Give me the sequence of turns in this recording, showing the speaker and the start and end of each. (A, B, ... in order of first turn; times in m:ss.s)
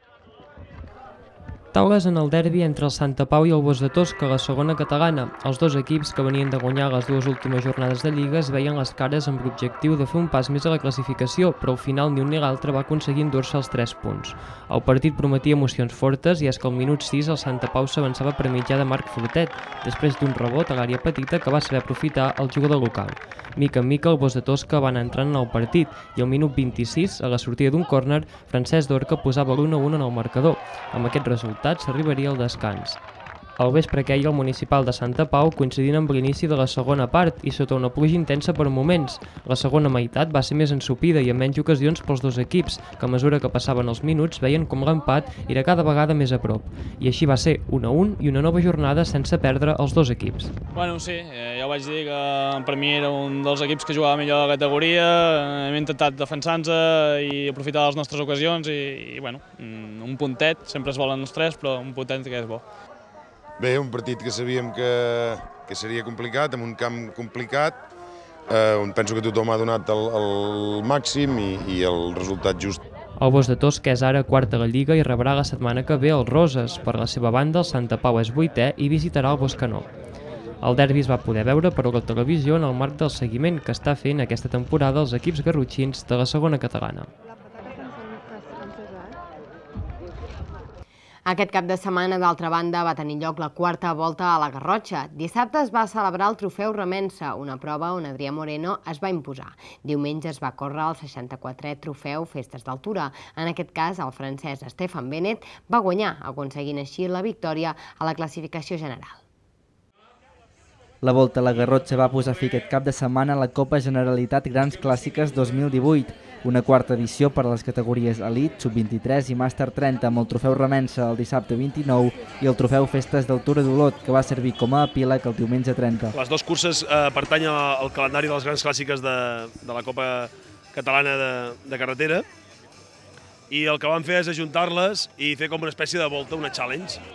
0:01.7-0:33.0 A
0:33.6-0:50.5 A
0:50.7-1:02.6 B
1:03.6-1:07.8 C
1:08.5-1:12.8 C
1:13.2-1:19.9 A
1:20.6-1:27.1 A
1:31.2-1:49.2 D
1:51.0-2:06.1 E
2:06.1-2:12.2 F
2:13.5-2:17.0 F